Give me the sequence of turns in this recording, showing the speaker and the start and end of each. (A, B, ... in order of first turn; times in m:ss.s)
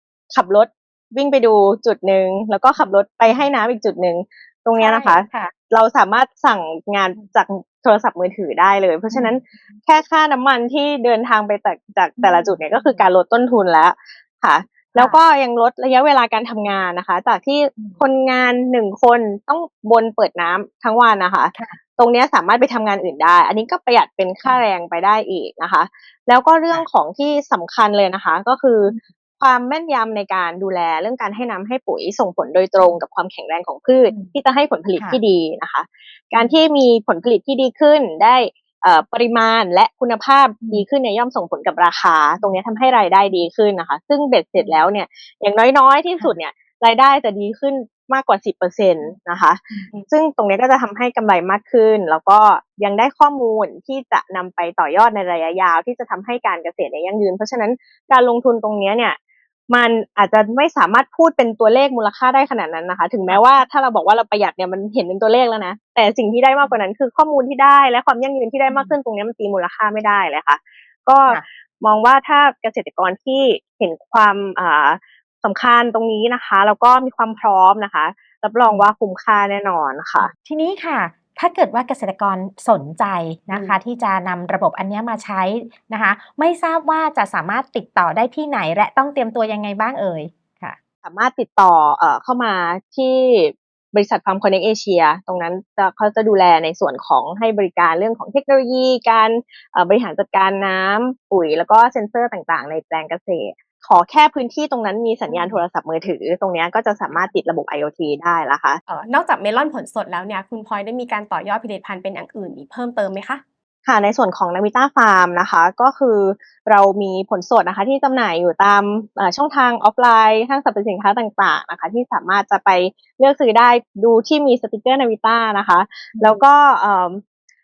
0:00.3-0:59.2 A
0:02.8-0:03.5 B
0:04.8-0:05.5 B
0:09.1-0:09.4 B
0:12.2-0:13.0 B
0:14.9-0:15.2 B
0:34.1-0:34.3 B
0:36.4-0:36.6 B
0:44.6-0:44.9 B
0:59.7-1:20.3 A
1:08.7-1:08.9 B
1:20.2-1:30.8 B
1:23.5-1:23.8 C
1:31.0-1:48.8 A
1:48.9-1:53.4 C
1:53.8-2:07.2 A